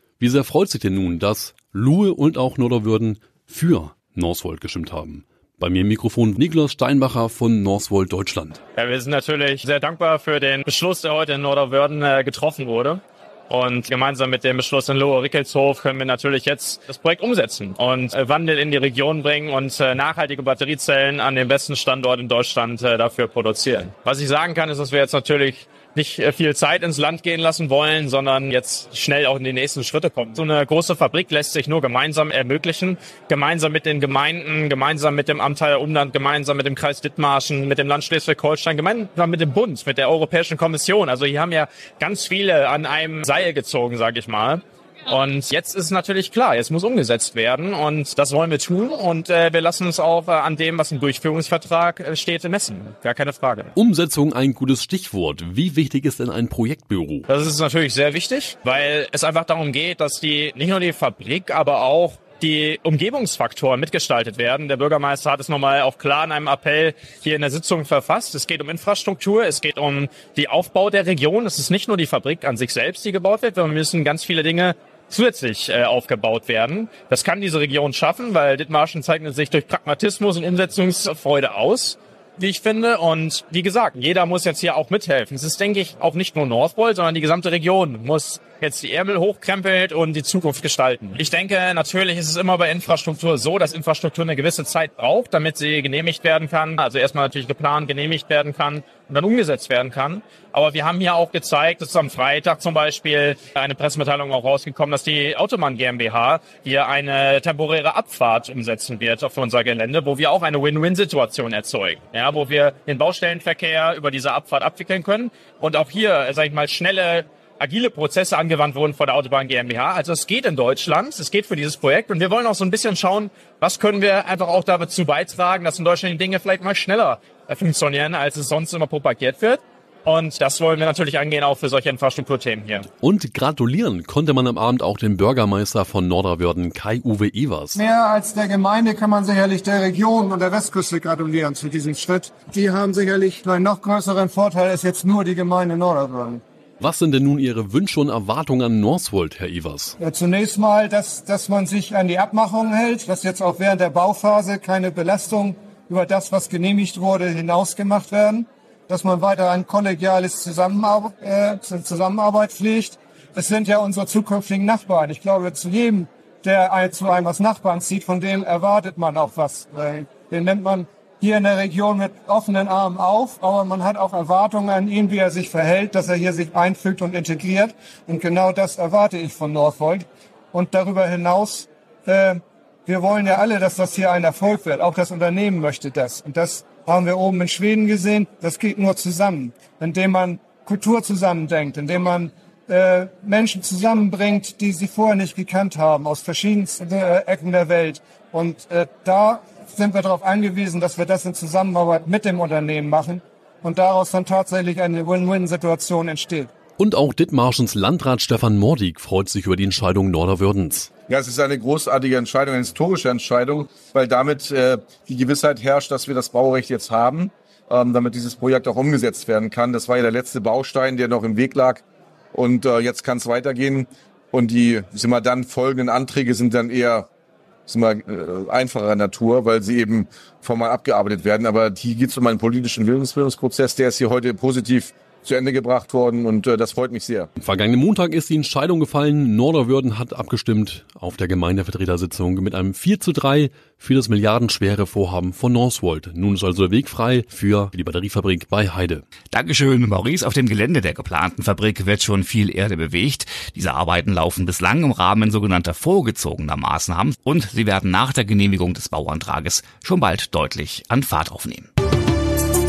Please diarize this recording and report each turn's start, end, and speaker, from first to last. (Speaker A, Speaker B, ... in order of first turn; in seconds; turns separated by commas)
Speaker A: 0.2-8.6, Speaker B: 8.8-53.7, Speaker A: 53.8-57.2, Speaker B: 57.3-132.8, Speaker A: 133.0-137.8, Speaker C: 137.8-146.4, Speaker A: 146.8-149.9, Speaker C: 150.0-206.5, Speaker A: 206.8-210.9, Speaker D: 211.1-227.1, Speaker D: 227.7-237.3, Speaker A: 237.4-249.0, Speaker E: 249.3-261.7